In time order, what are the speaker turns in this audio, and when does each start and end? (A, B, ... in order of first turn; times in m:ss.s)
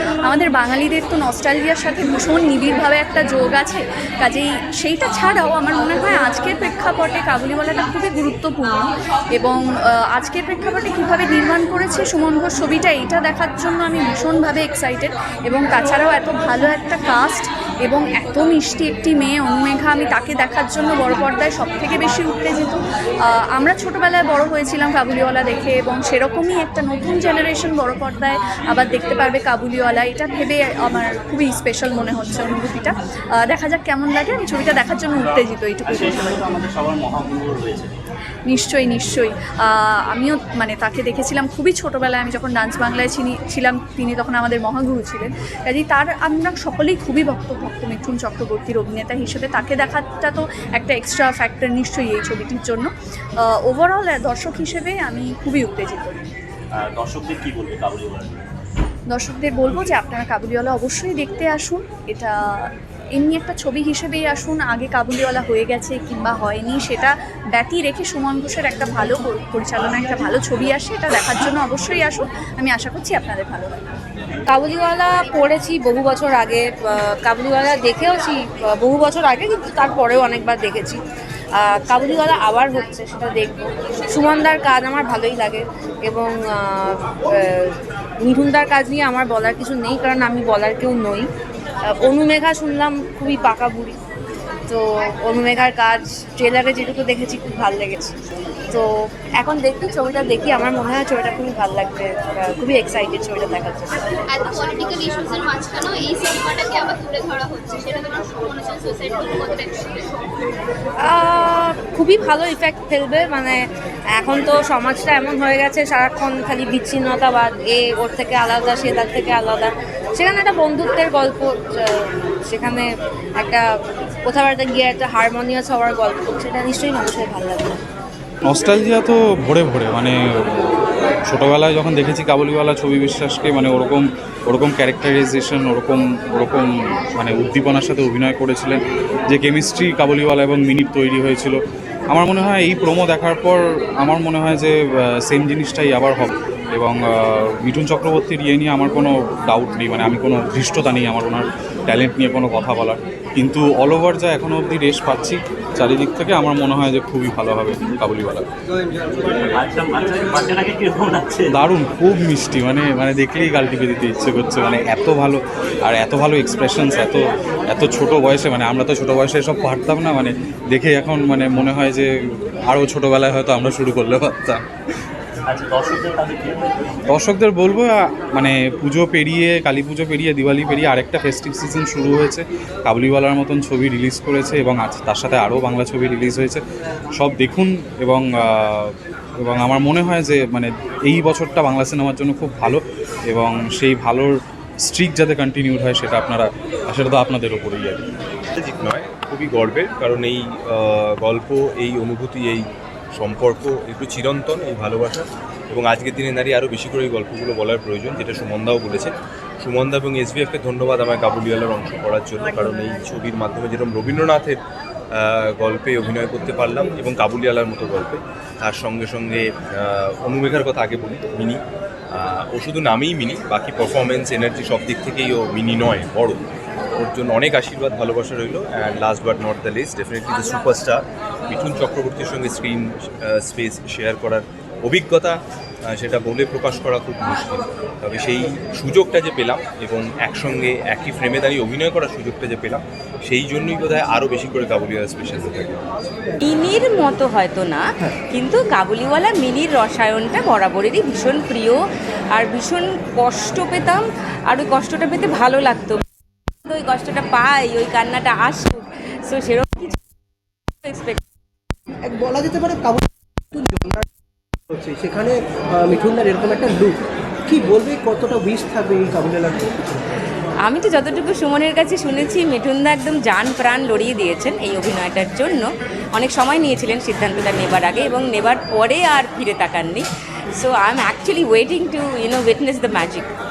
0:00.2-0:08.8 A
0:10.1-0:22.8 A
0:23.6-0:36.2 A
0:35.9-0:37.9 B
0:38.5-0:52.9 A
0:53.6-0:56.2 A
0:57.0-0:58.4 B
0:59.1-1:13.8 A
1:14.5-1:21.0 C
1:21.6-1:27.7 C
1:28.2-1:31.3 C
1:32.0-1:34.0 C
1:34.7-1:38.1 C
1:39.4-1:44.0 C
1:44.3-1:50.3 D
1:51.0-1:53.6 C
1:54.2-2:01.9 C
2:02.5-2:02.8 C
2:04.3-2:07.8 C
2:08.5-2:10.7 E
2:11.3-2:21.6 E
2:22.1-2:38.5 E
2:39.5-2:41.5 B
2:41.5-2:52.1 E
2:52.7-2:54.6 E
2:55.5-2:56.9 B
2:57.1-3:06.6 E
3:07.1-3:18.0 E
3:18.6-3:22.6 F
3:23.2-3:34.6 F
3:35.1-3:41.6 F
3:42.1-3:46.4 F
3:47.0-3:55.4 F
3:55.9-4:05.9 F
4:06.4-4:11.8 G
4:12.3-4:16.0 G
4:16.7-4:20.0 G
4:20.8-4:21.2 G
4:22.1-4:24.1 H
4:24.7-4:27.0 H
4:27.5-4:30.0 H
4:30.6-4:40.0 G
4:40.6-4:43.3 G